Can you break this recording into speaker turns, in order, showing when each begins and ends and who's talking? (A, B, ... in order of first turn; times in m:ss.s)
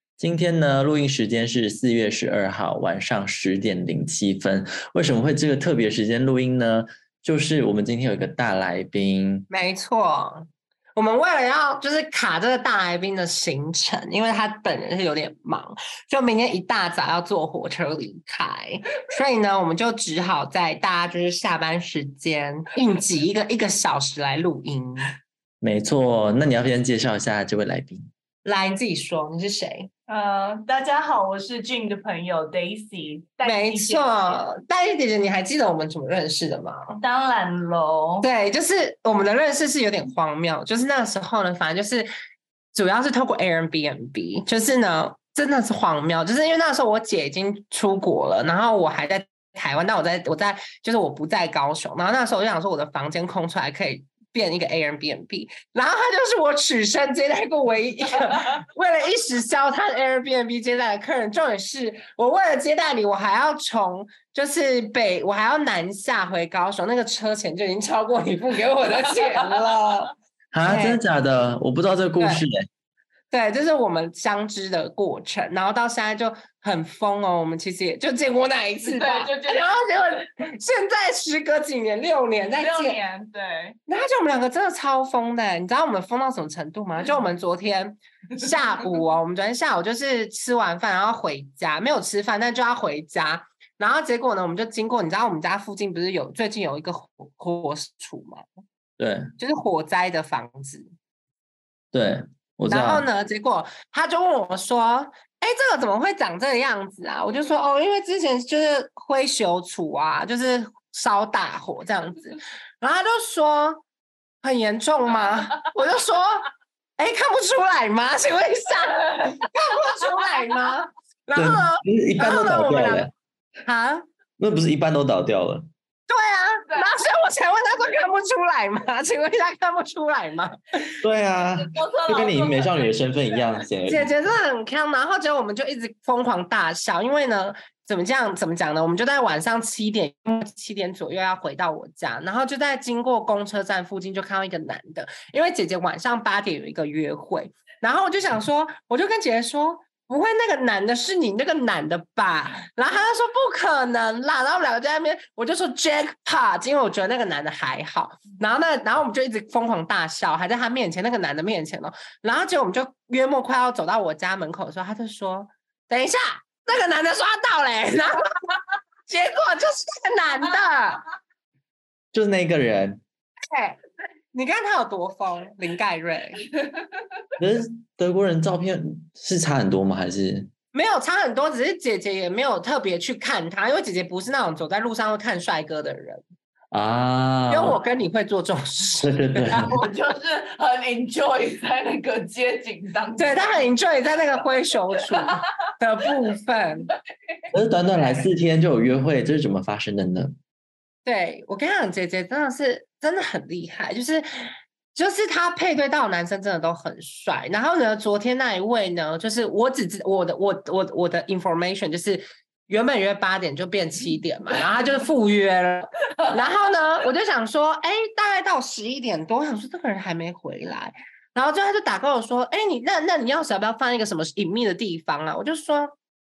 0:00.2-0:09.5 A
0:09.5-0:25.1 B
0:25.6-0:28.1 A
0:28.4-0:29.9 B
0:30.1-0:34.4 C
0:33.4-0:37.0 B
0:37.0-0:38.3 C
0:38.2-0:42.1 B
0:42.7-1:10.1 B
1:09.0-1:09.5 C
1:10.5-1:12.6 A
1:10.6-1:11.0 B
1:13.3-1:23.0 B
1:18.8-1:19.7 C
1:22.6-1:23.8 C
1:23.9-1:38.4 B
1:39.0-1:39.3 A
1:39.4-1:40.9 B
1:41.9-1:43.0 A
1:42.7-1:53.8 B
1:54.4-2:03.1 B
2:01.4-2:03.1 A
2:03.6-2:04.0 B
2:04.4-2:05.7 A
2:06.1-2:10.8 B
2:06.7-2:06.9 C
2:11.0-2:14.2 A
2:11.6-2:13.6 C
2:13.9-2:51.0 B
2:52.1-2:53.0 A
2:53.5-2:53.8 B
2:54.3-2:56.4 B
2:56.6-2:57.0 C
2:57.4-3:00.5 A
3:00.7-3:06.2 B
3:06.7-3:07.8 A
3:07.5-3:09.1 B
3:09.0-3:09.8 A
3:09.5-3:13.7 C
3:13.2-3:16.9 B
3:15.0-3:15.4 C
3:17.5-3:20.4 A
3:21.0-3:46.0 B